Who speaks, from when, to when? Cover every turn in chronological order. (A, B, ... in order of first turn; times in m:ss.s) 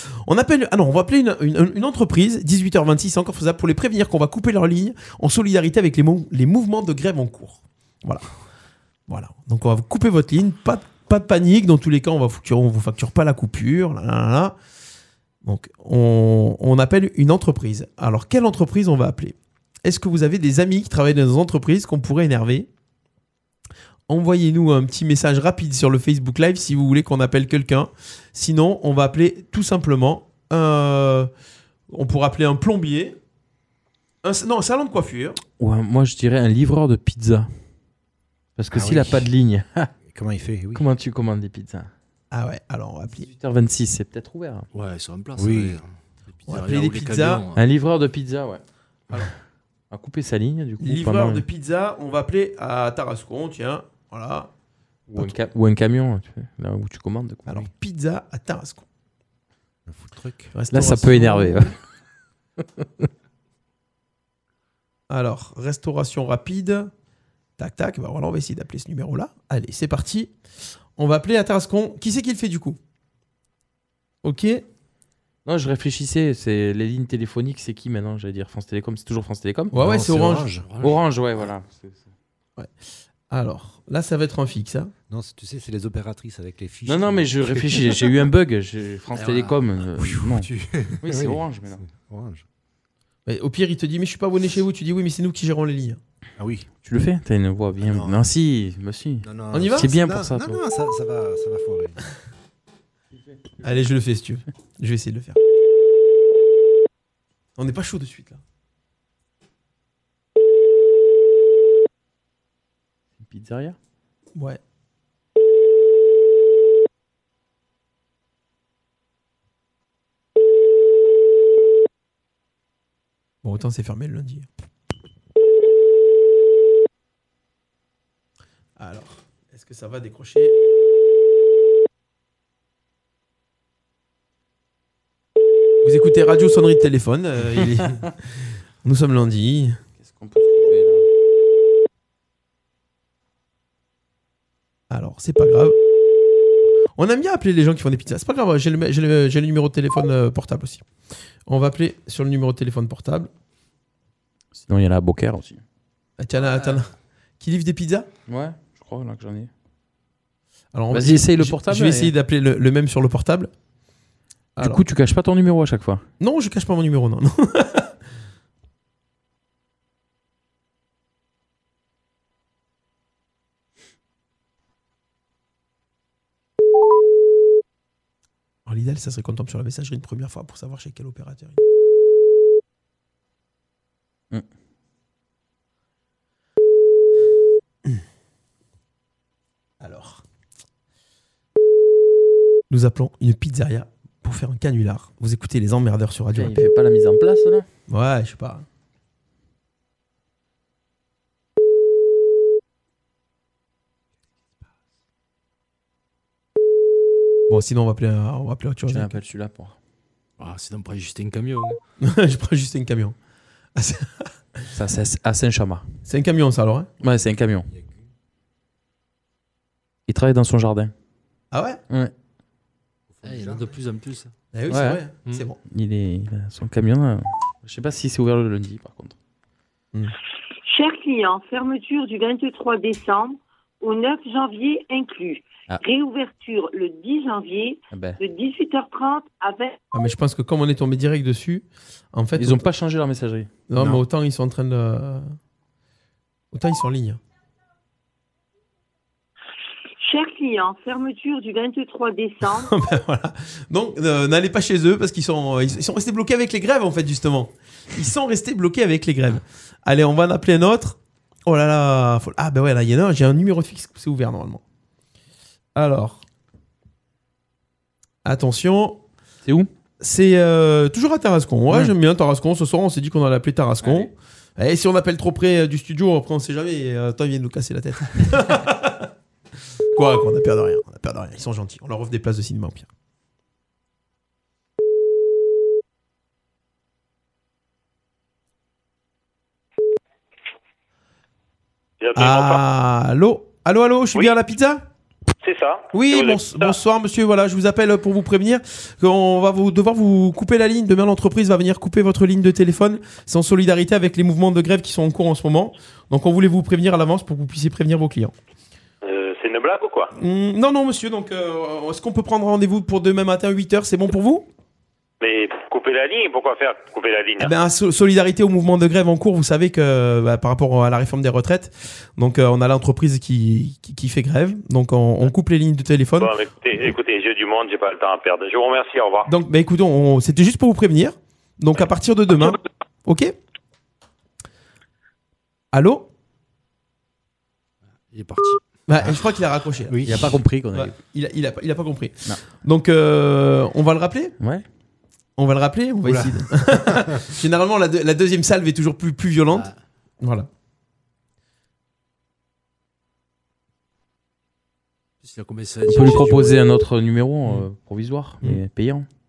0:00.2-0:08.2 A
0:09.1-0:14.5 A
0:15.4-0:22.7 A
0:24.1-0:31.3 A
0:31.9-0:33.2 A
0:34.2-0:35.4 A
0:35.6-0:37.5 B
0:38.6-0:39.9 B
0:38.7-0:39.3 C
0:40.0-0:40.8 C
0:40.7-0:41.9 B
0:42.3-0:43.3 A
0:43.1-0:44.7 B
0:44.7-0:45.9 D
0:45.4-0:45.8 C
0:46.4-0:47.6 D
0:46.5-0:47.4 A
0:47.5-0:48.6 B
0:49.9-0:51.4 B
0:50.8-0:54.5 A
0:55.1-0:57.6 B
0:57.5-0:58.8 A
0:59.9-1:00.5 C
1:00.5-1:01.7 A
1:00.7-1:01.8 B
1:05.1-1:06.9 A
1:07.6-1:10.3 A
1:11.0-1:12.8 A
1:14.2-1:14.6 A
1:15.4-1:19.7 B
1:19.7-1:20.5 A
1:19.7-1:20.7 C
1:20.6-1:21.0 D
1:20.8-1:22.1 B
1:23.3-1:24.9 A
1:25.1-1:28.2 C
1:26.8-1:30.5 B
1:29.1-1:29.6 D
1:30.0-1:32.4 C
1:31.0-1:31.8 B
1:33.2-1:36.0 A
1:36.4-1:36.7 C
1:36.8-1:40.6 B
1:37.8-1:38.2 C
1:39.2-1:42.0 C
1:39.5-1:39.9 A
1:43.6-1:45.4 A
1:47.6-1:48.4 A
1:53.2-1:53.8 B
2:03.4-2:04.5 A
2:08.8-2:10.5 A
2:15.8-2:18.1 A
2:18.8-2:19.8 A
2:20.0-2:21.0 B
2:24.9-2:25.8 A
2:27.0-2:30.8 A
2:31.5-2:33.3 A
2:34.5-2:35.6 B
2:36.2-2:36.9 A
2:37.4-2:38.1 A
2:38.3-2:39.5 B
2:40.7-2:43.5 A
2:40.9-2:42.1 B
2:44.6-2:44.8 A
2:44.6-2:46.0 B
2:46.2-2:47.9 A
2:58.6-3:01.6 A
3:09.8-3:10.2 A
3:12.7-3:16.7 A
3:16.3-3:17.6 B
3:17.9-3:18.6 A
3:27.5-3:29.2 A
3:28.9-3:29.7 B
3:30.4-3:31.8 D
3:32.0-3:33.1 A
3:33.8-3:34.1 A
3:34.7-3:35.8 B
3:36.0-3:36.9 A
3:37.0-3:37.6 B
3:37.7-3:38.0 C
3:40.1-3:40.9 B
3:41.5-3:41.8 A
3:43.1-3:43.8 C
3:43.2-3:44.3 D
3:44.5-3:45.6 A
3:44.7-3:45.0 B
3:45.6-3:49.2 B
3:50.7-3:59.8 E
3:57.9-3:58.2 B
3:59.9-4:02.6 A
4:02.4-4:03.5 B
4:03.7-4:05.3 A
4:03.8-4:04.0 C
4:06.5-4:07.2 A
4:10.0-4:12.7 E
4:12.6-4:24.6 A
4:25.8-4:26.2 A
4:28.2-4:29.0 A
4:30.0-4:39.1 A
4:31.7-4:31.9 B
4:39.9-4:42.9 A
4:52.0-4:52.6 F
4:52.2-4:54.8 A
4:55.4-4:56.7 F
4:55.9-5:08.3 A
5:09.0-5:10.1 F
5:10.2-5:14.5 A
5:15.2-5:17.5 F
5:17.4-5:26.9 A
5:26.2-5:29.3 F
5:29.2-5:33.3 A
5:35.7-5:36.1 A
5:38.1-5:38.6 D
5:38.9-5:40.1 A
5:39.9-5:40.4 C
5:40.0-5:40.9 B
5:40.7-5:44.3 A
5:44.4-5:44.6 B
5:45.4-5:49.7 A
5:46.0-5:47.2 C
5:50.2-5:50.5 A
5:55.2-5:56.6 D
5:55.9-5:59.1 B